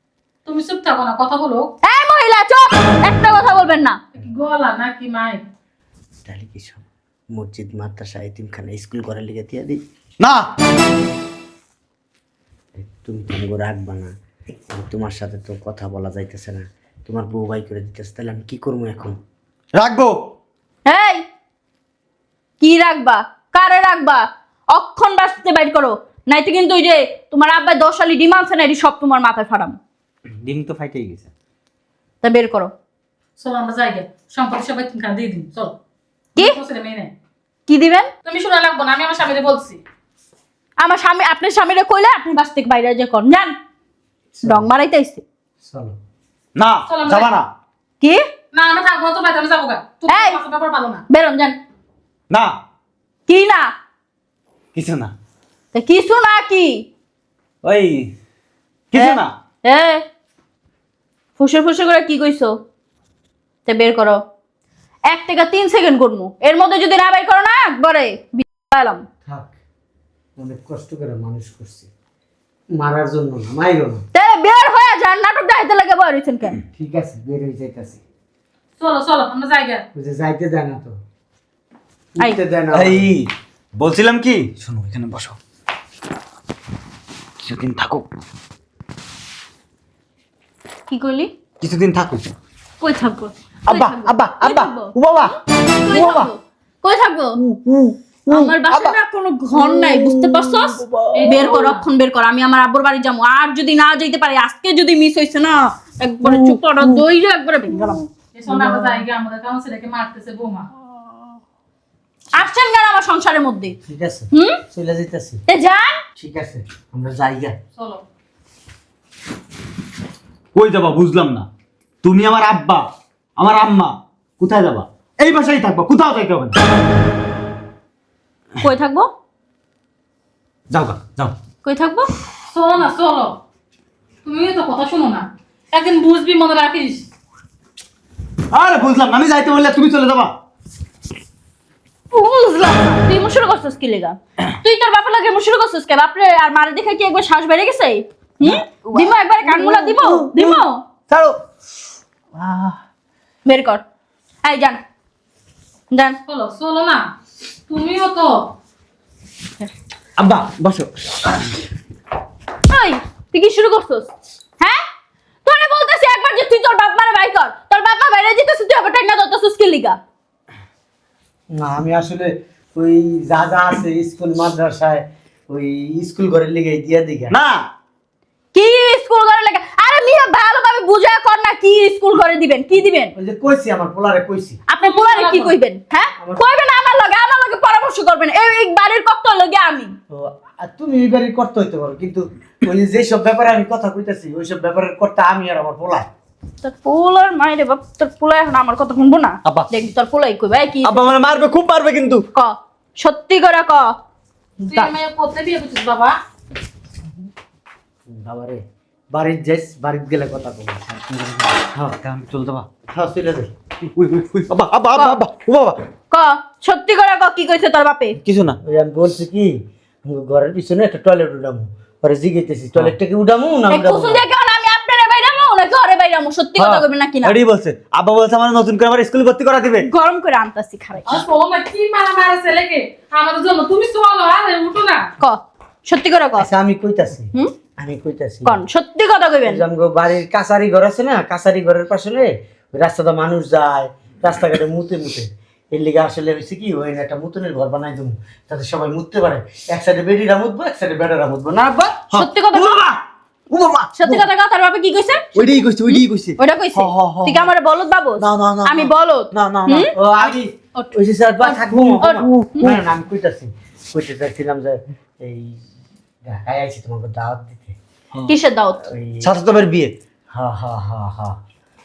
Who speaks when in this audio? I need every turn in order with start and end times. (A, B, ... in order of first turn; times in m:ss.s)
0:00.4-0:01.7 A
0:01.8-0:04.0 B
0:04.1-0:05.4 A
0:06.2-0:09.8 C
0:10.2-0:10.4 D
0:12.8-0:14.1 C
0:14.7-0:19.1 C
0:19.8-0:20.2 D
0:20.8-0:21.2 B
0:22.6-0:29.8 B
0:30.3-0:31.3 D
0:32.2-0:32.7 B
0:33.4-0:35.7 A
0:36.4-0:37.1 A
0:37.7-0:38.1 B
0:38.2-0:39.8 A
0:40.8-0:43.5 B
0:44.4-0:44.7 C
0:44.4-0:45.2 B
0:45.6-0:46.0 C
0:46.6-0:47.5 D
0:46.9-0:47.3 A
0:48.5-0:51.0 A
0:50.1-0:50.4 B
0:51.1-0:51.6 B
0:53.3-0:53.7 B
0:54.7-0:55.1 D
0:55.7-0:56.9 B
0:57.6-0:58.1 D
0:58.9-0:59.3 D
0:58.9-1:00.0 B
1:01.4-1:02.5 B
1:03.7-1:04.2 B
1:05.1-1:09.0 B
1:09.2-1:09.5 C
1:10.4-1:11.9 C
1:12.7-1:14.0 C
1:14.1-1:16.6 B
1:16.8-1:18.0 C
1:18.8-1:19.8 A
1:19.9-1:20.9 C
1:22.2-1:23.1 C
1:22.7-1:25.4 D
1:27.4-1:28.0 D
1:30.9-1:31.3 B
1:31.6-1:32.3 D
1:32.8-1:34.9 B
1:33.7-1:36.3 D
1:35.8-1:37.4 B
1:37.4-1:39.0 D
1:38.3-1:48.0 B
1:39.5-1:41.4 D
1:41.1-1:41.8 A
1:46.2-1:47.0 D
1:48.3-1:50.7 A
1:52.3-1:53.7 B
1:53.8-1:55.4 C
1:54.3-1:54.6 B
1:55.5-1:56.0 B
1:56.2-1:57.6 C
1:57.8-1:58.0 A
2:00.5-2:01.5 D
2:02.0-2:02.8 D
2:03.4-2:06.6 D
2:08.6-2:09.1 B
2:10.7-2:11.3 D
2:11.6-2:12.1 B
2:12.5-2:13.4 A
2:14.2-2:17.0 A
2:18.5-2:20.3 D
2:22.1-2:30.8 B
2:28.4-2:31.4 D
2:32.3-2:32.8 D
2:33.4-2:33.8 B
2:34.4-2:34.8 B
2:35.9-2:36.2 B
2:36.2-2:37.1 A
2:37.7-2:38.5 A
2:40.2-2:41.4 D
2:42.7-2:44.8 B
2:45.4-2:50.0 B
2:51.5-2:57.3 C
2:57.3-2:57.6 D
2:58.5-3:03.1 B
3:03.2-3:04.6 C
3:04.7-3:09.9 B
3:04.8-3:05.6 A
3:06.2-3:06.5 C
3:10.1-3:16.1 C
3:16.6-3:21.1 B
3:19.4-3:19.7 D
3:20.8-3:22.2 D
3:22.3-3:23.9 B
3:24.6-3:24.9 B
3:24.7-3:26.2 A
3:28.1-3:30.8 C
3:30.9-3:32.7 D
3:32.9-3:33.5 C
3:33.8-3:35.8 D
3:36.1-3:38.2 B
3:38.2-3:38.6 D
3:38.6-3:39.5 C
3:40.0-3:44.2 C
3:43.7-3:47.3 B
3:46.6-3:49.8 D
3:49.8-3:51.1 B
3:51.1-3:55.1 A
3:55.2-3:56.5 B
3:56.4-3:58.6 C
3:58.4-3:59.6 B
3:59.4-4:12.1 C
4:12.1-4:14.3 D
4:12.1-4:12.8 B
4:14.0-4:22.7 B
4:15.3-4:17.5 D
4:18.2-4:19.9 D
4:19.9-4:25.6 C
4:21.7-4:22.8 D
4:26.2-4:27.8 C
4:28.3-4:28.8 B
4:28.8-4:29.3 C
4:29.2-4:29.9 D
4:30.3-4:31.4 C